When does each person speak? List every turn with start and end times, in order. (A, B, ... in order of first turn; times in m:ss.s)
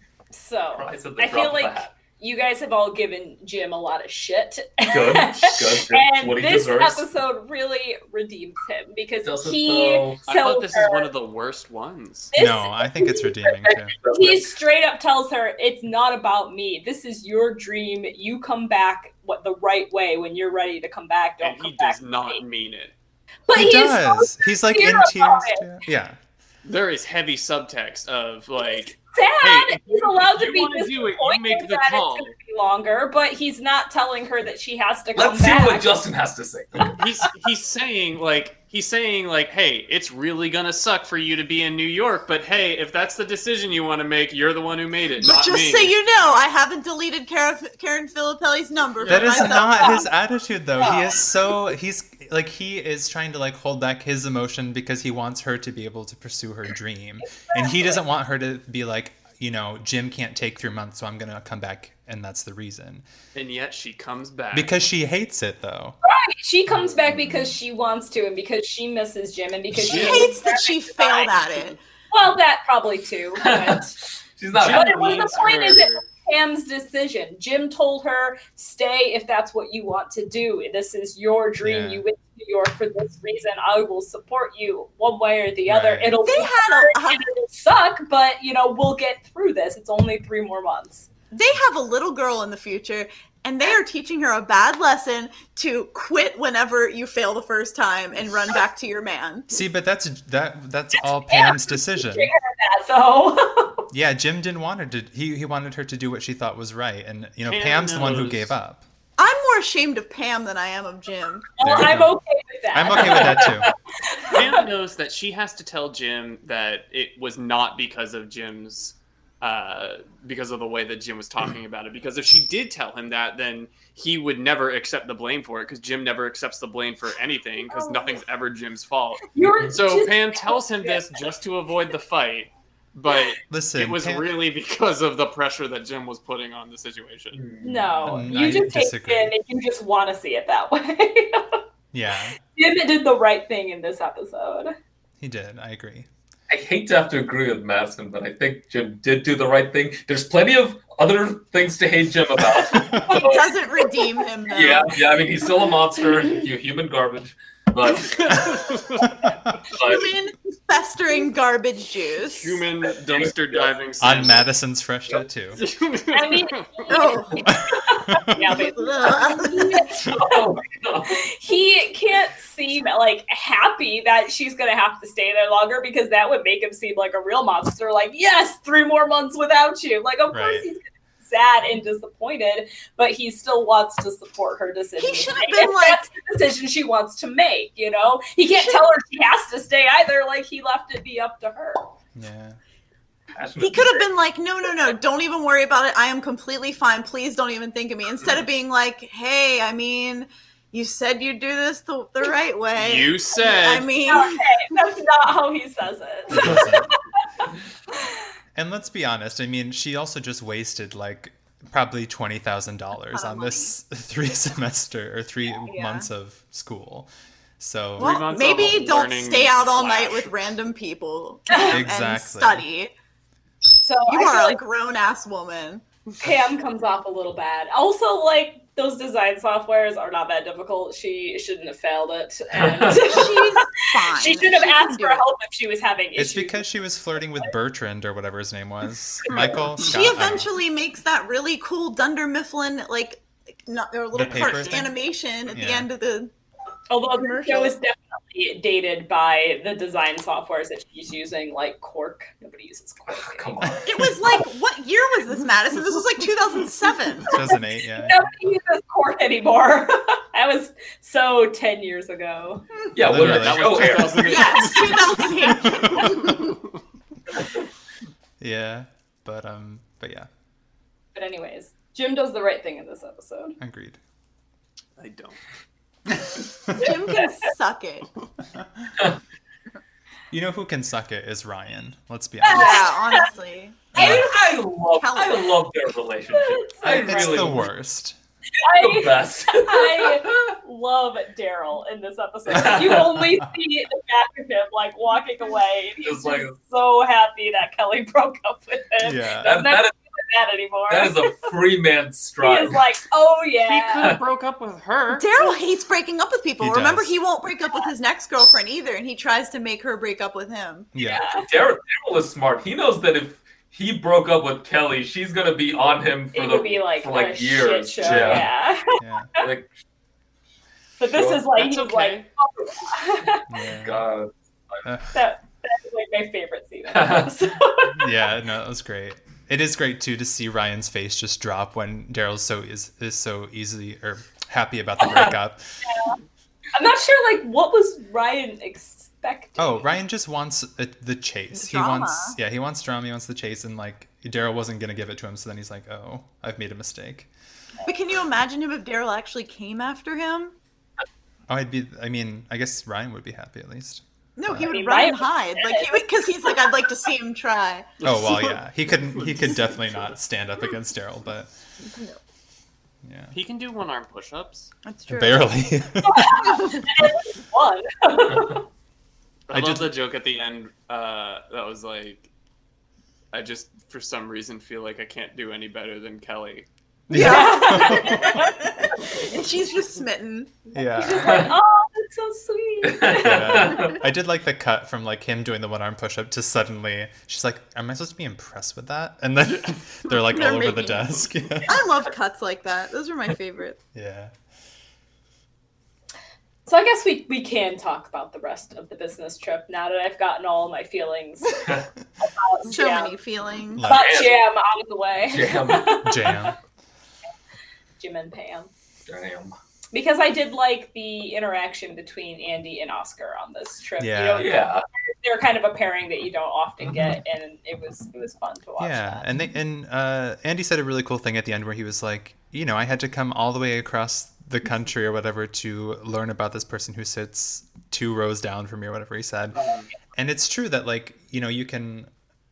0:00.3-0:11.1 A
0:00.7-0:01.9 B
0:04.8-0:07.1 B
0:09.2-0:10.2 B
0:10.2-0:12.3 C
0:12.3-0:22.4 A
0:12.4-0:14.0 D
0:13.7-0:14.5 B
0:21.4-0:22.9 C
0:23.5-0:25.6 A
0:23.5-0:26.2 D
0:26.6-0:32.4 C
0:28.6-0:36.0 A
0:35.2-0:37.0 B
0:37.0-0:46.0 C
0:45.2-0:50.1 E
0:49.0-0:49.5 C
0:49.1-1:03.0 D
0:49.6-0:50.0 A
0:50.8-0:51.3 A
0:57.4-0:58.0 A
1:03.3-1:04.8 C
1:04.5-1:06.0 D
1:06.0-1:11.3 A
1:06.8-1:07.4 B
1:09.7-1:10.3 C
1:09.8-1:11.8 E
1:12.1-1:14.0 A
1:13.4-1:13.9 B
1:14.4-1:15.2 B
1:14.5-1:16.1 C
1:14.7-1:31.1 A
1:21.6-1:22.0 D
1:25.7-1:26.2 D
1:26.2-1:27.3 E
1:31.3-1:39.5 E
1:39.5-1:42.3 D
1:41.0-1:43.9 A
1:43.9-1:48.8 D
1:47.4-1:48.5 C
1:49.2-1:51.5 E
1:51.6-1:54.6 A
1:51.6-1:52.2 D
1:52.7-1:53.7 D
1:54.3-2:17.4 C
2:09.3-2:11.0 A
2:13.5-2:14.3 D
2:17.4-2:18.1 B
2:17.6-2:21.6 A
2:18.0-2:19.4 D
2:21.9-2:22.4 D
2:22.5-2:24.7 A
2:25.2-2:26.1 D
2:26.5-2:33.5 B
2:32.7-2:33.0 D
2:33.1-2:35.0 E
2:33.1-2:33.4 A
2:34.5-2:38.8 B
2:38.1-2:39.2 C
2:39.6-2:40.1 B
2:39.8-2:42.6 E
2:42.2-2:44.5 C
2:43.1-2:43.7 B
2:44.0-2:45.6 D
2:45.6-2:46.9 C
2:46.1-2:50.5 A
2:46.9-2:47.5 E
2:47.4-2:48.4 D
2:48.4-2:49.9 E
2:50.1-2:51.3 B
2:51.1-3:11.9 A
3:00.3-3:00.7 D
3:05.0-3:06.0 E
3:08.6-3:08.8 E
3:12.2-3:12.6 D
3:13.4-3:14.0 B
3:13.6-3:24.6 E
3:22.8-3:23.9 C
3:24.0-3:28.2 A
3:26.3-3:26.9 D
3:28.6-3:38.2 D
3:33.1-3:33.8 E
3:35.6-3:36.1 E
3:38.0-3:40.3 C
3:38.0-3:42.9 E
3:41.5-3:41.8 A
3:41.6-3:42.6 D
3:43.8-3:44.6 A
3:44.1-3:45.8 E
3:46.2-3:56.6 A
3:52.6-3:53.1 B
3:52.9-3:55.2 E
3:56.2-4:00.5 D
3:59.8-4:06.3 E
4:04.1-4:04.9 D
4:04.2-4:04.7 C
4:05.5-4:05.9 D
4:06.9-4:13.8 A
4:07.2-4:07.8 E
4:13.1-4:14.1 B
4:13.8-4:17.3 E
4:17.3-4:18.3 D
4:17.3-4:22.8 A
4:22.9-4:24.6 B
4:23.0-4:24.3 D
4:23.1-4:25.3 C
4:24.2-4:26.2 E
4:26.0-4:26.5 C
4:26.0-4:26.3 A
4:28.4-4:30.3 D
4:31.2-4:33.6 A
4:33.6-4:34.0 D
4:35.0-4:35.4 C
4:36.1-4:36.9 D
4:36.8-4:38.1 E
4:37.0-4:37.5 A
4:38.5-4:38.9 D
4:40.3-4:42.9 D
4:42.4-4:43.3 A
4:42.5-4:44.4 E
4:43.9-4:44.3 D
4:44.0-4:47.7 B
4:44.9-4:45.6 E
4:46.3-4:47.5 A
4:46.9-4:48.2 D
4:48.6-5:01.5 A
4:48.6-4:50.5 B
4:52.5-4:53.2 B
4:56.0-4:56.6 B
4:59.0-4:59.6 D
4:59.4-4:59.9 B
5:00.9-5:02.8 B
5:02.4-5:04.1 A
5:03.7-5:05.3 C
5:05.1-5:10.9 E
5:06.6-5:07.2 D
5:10.9-5:11.3 D
5:11.0-5:11.5 A
5:11.4-5:18.5 B
5:16.3-5:19.5 A
5:18.0-5:19.3 D
5:19.4-5:19.7 B
5:21.0-5:23.5 A
5:21.5-5:22.3 C
5:23.5-5:24.1 D
5:23.8-5:24.3 B
5:24.8-5:25.2 D
5:25.1-5:28.1 A
5:26.9-5:27.3 B
5:27.9-5:35.9 D
5:35.8-5:36.2 A
5:36.7-5:39.9 A
5:39.6-5:47.3 D
5:41.5-5:42.4 E
5:47.8-5:50.6 E
5:51.5-5:54.7 D
5:54.4-5:57.9 E
5:54.7-5:56.0 A
5:58.0-6:01.5 D
5:58.0-5:58.6 C
6:01.8-6:02.2 E
6:03.0-6:03.4 D
6:03.3-6:04.7 C
6:04.8-6:05.7 E
6:05.1-6:06.5 D
6:06.0-6:08.6 A
6:06.4-6:06.9 E
6:09.5-6:12.3 C
6:09.5-6:10.0 D
6:13.3-6:16.7 C
6:17.1-6:18.4 D
6:17.1-6:20.6 E
6:17.1-6:19.1 A
6:20.7-6:21.5 D
6:20.9-6:23.8 A
6:21.2-6:21.5 B
6:22.8-6:24.0 B
6:23.2-6:31.8 D
6:30.3-6:31.1 E
6:31.6-6:33.8 E
6:33.9-6:34.3 D
6:36.7-6:41.7 A
6:42.2-6:43.1 A
6:42.7-6:43.9 E
6:43.8-6:44.2 D
6:43.8-6:46.6 A
6:43.9-6:44.4 B
6:45.2-6:46.0 B
6:46.0-6:46.6 D
6:48.0-6:48.7 A
6:49.1-6:49.6 B
6:49.9-6:59.2 A
6:54.0-6:54.5 D
6:54.4-6:54.8 B
6:58.8-7:09.6 D
7:09.5-7:09.9 C
7:10.1-7:12.1 D